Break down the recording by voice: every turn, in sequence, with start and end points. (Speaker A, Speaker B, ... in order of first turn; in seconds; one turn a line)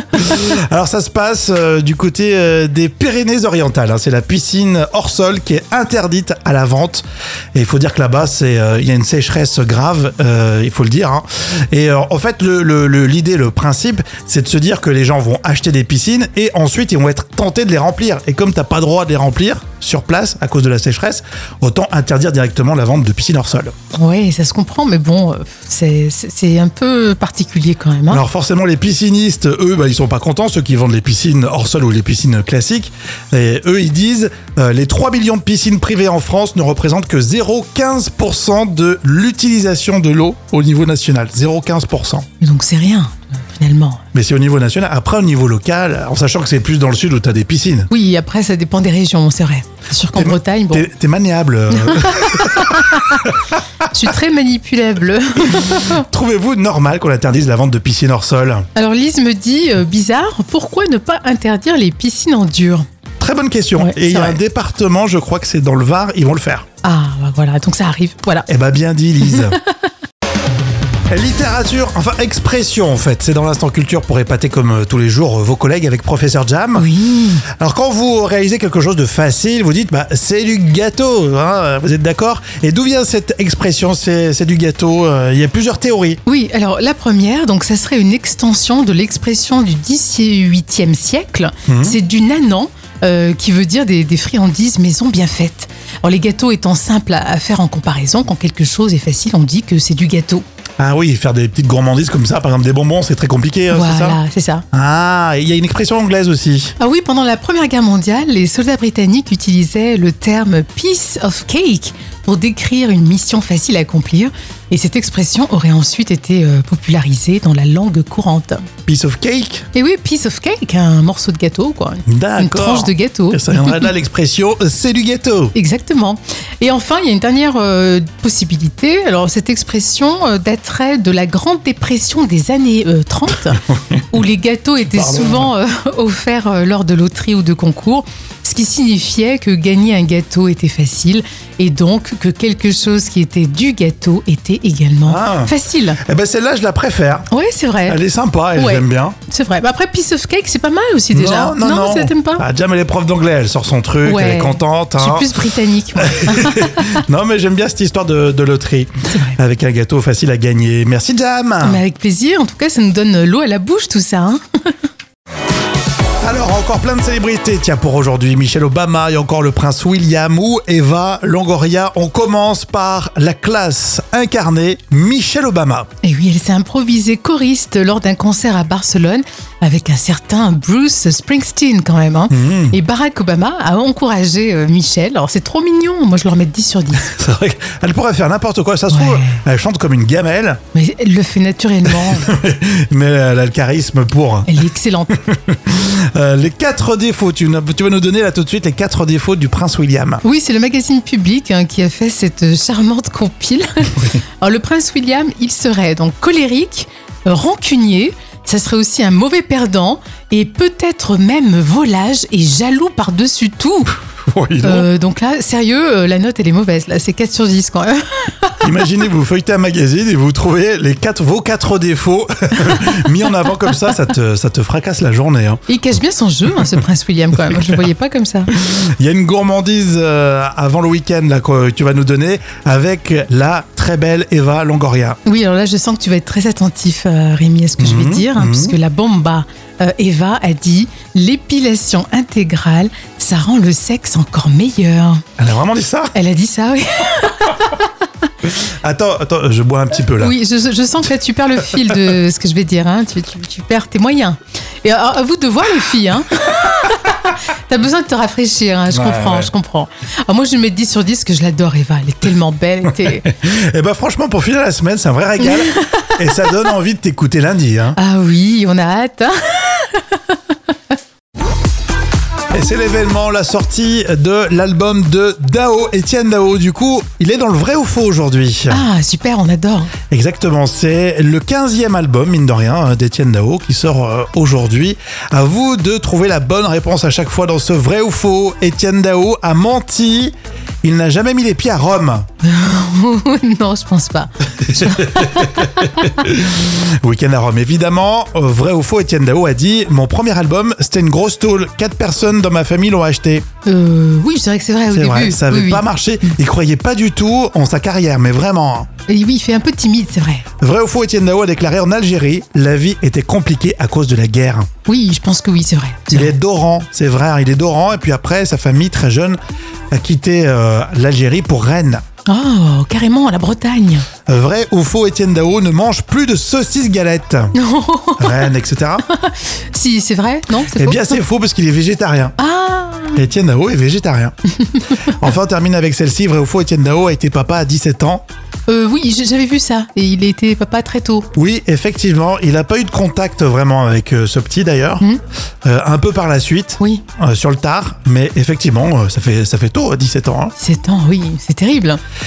Speaker A: 0.1-23.7
Speaker B: 24.0-28.2
Speaker A: 28.1-42.3
Speaker B: 42.4-44.0
Speaker A: 44.1-47.9
Speaker B: 47.9-50.9
Speaker A: 50.1-53.5
Speaker B: 51.9-53.2
Speaker B: 53.9-56.0
Speaker A: 55.9-58.7
Speaker B: 58.8-62.9
Speaker A: 63.2-66.7
Speaker B: 63.8-64.4
Speaker B: 66.8-68.5
Speaker A: 68.5-69.6
Speaker B: 69.3-69.6
Speaker A: 71.1-76.9
Speaker B: 76.8-77.4
Speaker A: 77.6-86.2
Speaker B: 86.3-100.4
Speaker A: 91.7-92.0
Speaker A: 100.8-104.2
Speaker B: 103.7-104.6
Speaker A: 104.7-106.7
Speaker B: 106.8-118.7
Speaker A: 118.9-119.7
Speaker B: 119.7-123.9
Speaker A: 122.1-125.5
Speaker B: 125.5-146.0
Speaker A: 134.9-135.5
Speaker A: 145.1-145.5
Speaker A: 146.0-147.3
Speaker B: 147.3-148.0
Speaker A: 147.9-149.2
Speaker B: 148.6-152.4
Speaker A: 151.1-155.3
Speaker B: 154.0-156.8
Speaker A: 156.0-161.8
Speaker B: 159.1-159.4
Speaker B: 161.6-164.7
Speaker A: 166.2-175.9
Speaker B: 176.0-187.1
Speaker A: 182.3-182.8
Speaker A: 187.0-190.6
Speaker B: 188.9-189.4
Speaker B: 190.7-192.3
Speaker A: 191.9-194.6
Speaker B: 194.5-195.1
Speaker A: 195.1-200.2
Speaker B: 200.2-213.9
Speaker A: 214.3-214.9
Speaker B: 214.6-218.6
Speaker A: 218.6-225.6
Speaker B: 225.7-228.5
Speaker A: 228.5-235.2
Speaker B: 235.3-245.2
Speaker A: 237.8-238.8
Speaker A: 245.4-246.2
Speaker B: 246.1-247.8
Speaker A: 248.6-250.4
Speaker B: 250.2-263.3
Speaker A: 258.9-259.5
Speaker A: 263.0-268.0
Speaker B: 265.4-266.5
Speaker B: 268.0-270.4
Speaker A: 272.5-278.9
Speaker B: 278.7-279.9
Speaker A: 280.1-292.3
Speaker B: 292.4-295.9
Speaker A: 294.7-303.5
Speaker B: 303.6-306.4
Speaker A: 304.9-308.9
Speaker B: 309.1-310.5
Speaker A: 310.6-314.7
Speaker B: 314.9-316.3
Speaker A: 316.1-319.4
Speaker A: 319.9-322.0
Speaker B: 322.3-324.1
Speaker A: 324.3-327.5
Speaker B: 327.6-328.5
Speaker A: 328.2-329.1
Speaker B: 329.1-331.2
Speaker A: 330.8-332.4
Speaker B: 332.4-333.2
Speaker A: 333.1-334.3
Speaker A: 335.1-338.2
Speaker B: 338.7-341.3
Speaker A: 341.4-345.0
Speaker A: 345.6-350.5
Speaker B: 350.6-352.0